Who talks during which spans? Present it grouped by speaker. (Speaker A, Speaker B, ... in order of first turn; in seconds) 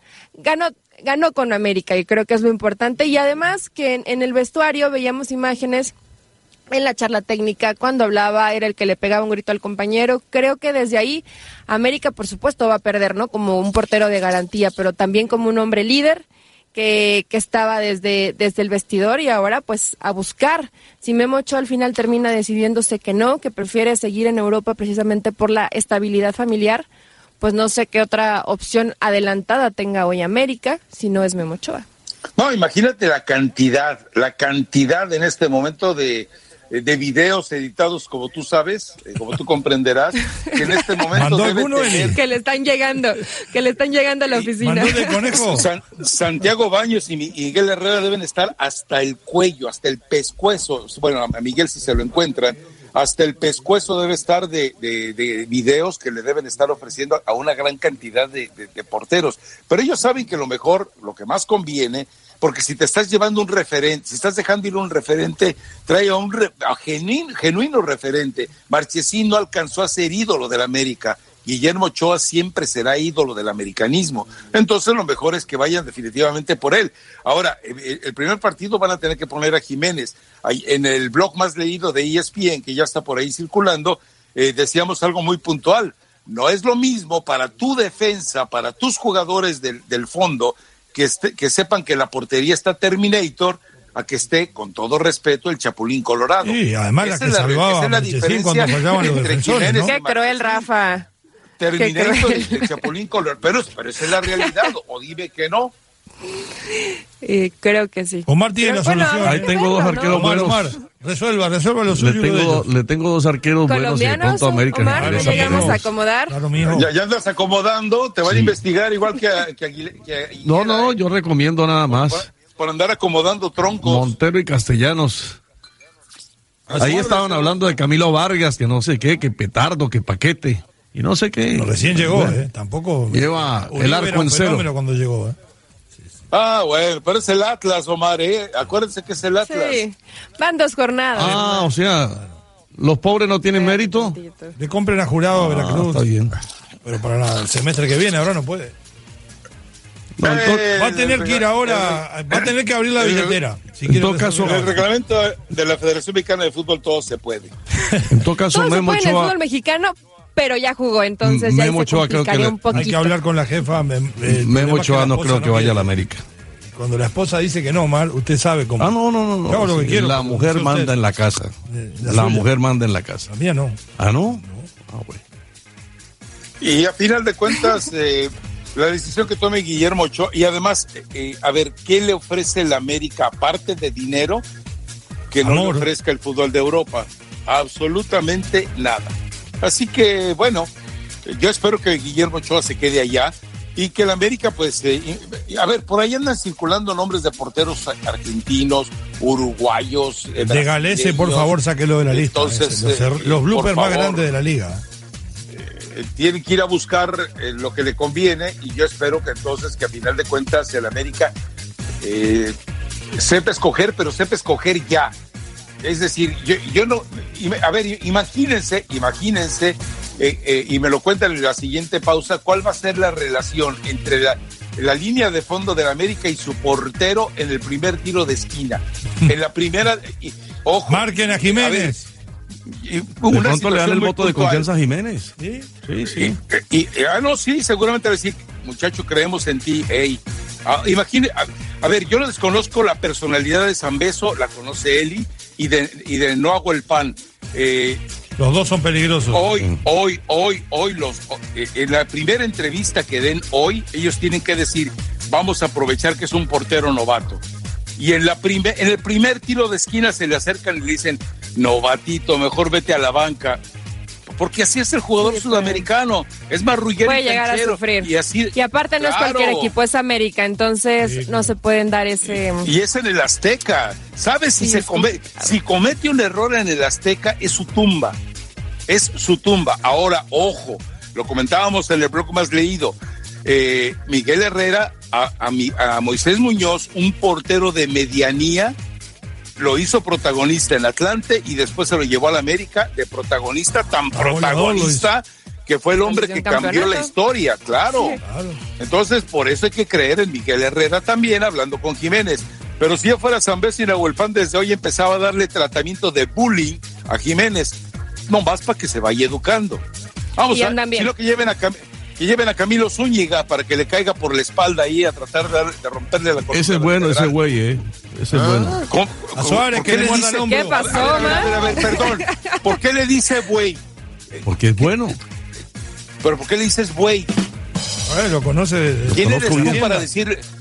Speaker A: 0.4-5.9, 6.7-26.9, 27.4-31.9, 42.1-45.4, 99.8-101.1, 101.8-102.8, 106.8-110.2, 113.7-116.4, 139.4-141.6, 143.5-144.6, 158.5-163.2, 265.2-265.9, 267.0-272.7, 274.6-275.5, 296.0-297.1, 310.5-311.1, 320.5-322.6
Speaker B: 32.4-42.2, 45.4-100.7, 101.6-105.7, 116.6-121.0, 121.9-124.1, 126.7-127.6, 136.3-139.8, 150.2-153.4, 154.4-157.5, 176.6-184.4, 185.3-190.7, 191.3-201.6, 202.1-204.3, 205.5-211.3, 212.0-212.6, 213.2-215.1, 215.8-231.9, 232.7-234.7, 236.2-248.0, 249.3-257.4, 258.0-263.6, 264.3-269.7, 272.6-278.2, 278.9-288.8, 289.6-298.2, 298.8-309.8, 310.4-317.4, 318.9-323.8, 324.3-324.9, 326.2-327.3, 329.1-330.4
Speaker C: 41.1-42.2, 44.6-45.7, 96.4-99.9, 108.3-112.7, 114.8-116.9, 126.7-127.2, 131.5-135.4, 144.6-146.1, 146.8-148.7, 150.5-154.8, 162.7-171.0, 171.7-172.5, 173.3-174.7, 185.4-185.9, 200.4-204.8, 230.9-232.1, 235.4-235.7, 248.4-249.5, 271.0-271.5, 294.1-295.1, 298.2-298.6, 319.4-321.3, 328.1-330.1
Speaker D: 109.2-110.7, 111.9-115.8, 118.3-118.6, 120.4-122.3, 123.8-125.4, 126.8-132.4, 133.1-134.7, 141.2-142.2, 142.8-144.2, 145.3-146.4, 150.2-150.6, 153.8-154.8, 158.1-159.3, 161.2-162.8, 164.2-166.2, 168.8-171.5, 172.0-173.3, 174.0-175.2, 233.3-235.3, 235.9-236.3, 316.5-318.8, 324.4-325.2, 329.2-329.9